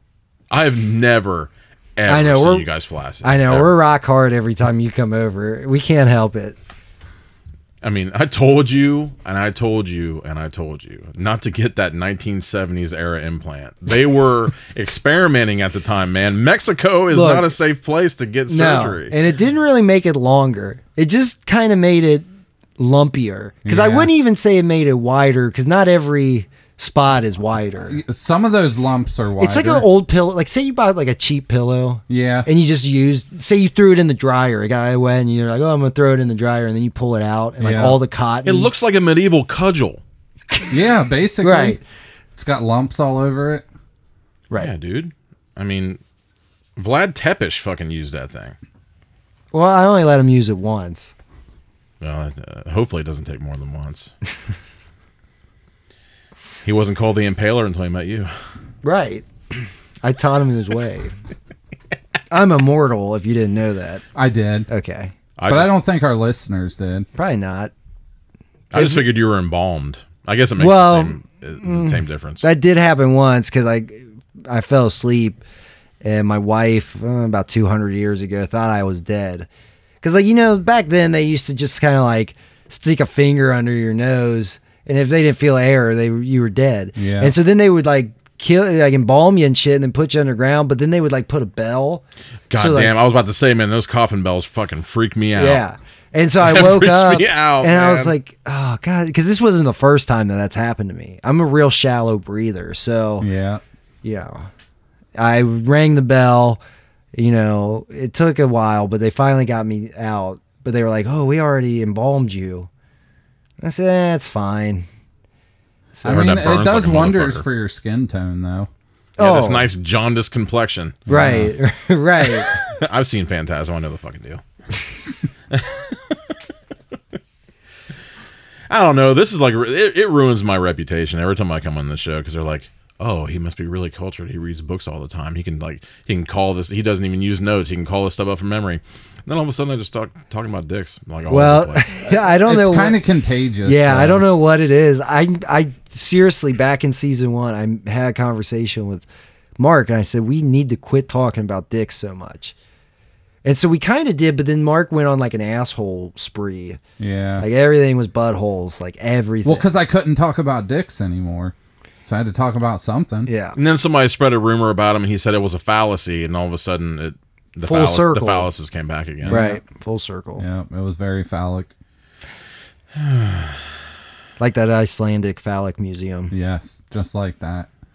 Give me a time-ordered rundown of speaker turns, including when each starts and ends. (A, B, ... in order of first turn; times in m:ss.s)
0:00.5-0:03.8 A
0:02.1-0:02.7 B
0:03.2-0:06.6 B
0:07.8-0:19.1 A
0:17.1-0:17.5 B
0:18.5-0:22.2 B
0:22.8-0:28.0 B
0:23.6-0:24.1 C
0:27.9-0:29.9 C
0:29.4-0:38.7 B
0:32.1-0:32.5 C
0:37.6-0:38.0 C
0:38.4-0:40.0 A
0:40.7-0:41.8 C
0:41.4-0:41.8 B
0:42.4-0:43.6 C
0:44.6-0:46.0 A
0:46.8-0:48.6 A
0:49.5-0:51.1 B
0:52.0-0:54.1 A
0:56.6-0:58.3 A
0:58.8-1:01.1 B
1:02.3-1:04.0 B
1:04.1-1:04.7 C
1:04.7-1:05.1 B
1:05.4-1:05.8 A
1:05.5-1:07.1 C
1:07.2-1:07.7 B
1:08.7-1:12.4 A
1:08.7-1:09.1 B
1:10.6-1:15.4 B
1:16.0-1:19.5 B
1:20.0-1:32.9 B
1:27.0-1:27.3 C
1:32.5-1:35.6 A
1:35.4-1:43.3 B
1:36.4-1:38.2 A
1:43.2-1:43.6 C
1:44.0-1:44.5 B
1:45.2-1:46.6 B
1:47.1-1:52.7 B
1:53.6-1:54.9 B
1:56.0-1:56.4 B
1:56.0-1:58.7 C
1:56.1-1:57.4 A
1:59.2-1:59.7 B
1:59.2-2:01.0 A
2:01.1-2:01.5 C
2:01.1-2:02.6 B
2:02.4-2:04.4 A
2:05.5-2:06.1 A
2:08.7-2:22.1 A
2:21.3-2:23.0 B
2:22.4-2:24.2 C
2:23.6-2:29.0 B
2:29.6-2:32.5 B
2:33.4-2:36.8 B
2:37.0-2:37.4 C
2:37.4-2:39.7 B
2:39.4-2:43.3 C
2:43.2-2:43.6 B
2:43.5-2:49.4 A
2:47.6-2:48.5 B
2:49.2-2:49.6 C
2:49.3-2:50.4 B
2:50.4-2:51.7 C
2:53.0-2:53.6 A
2:54.4-2:56.3 B
2:56.3-2:57.7 C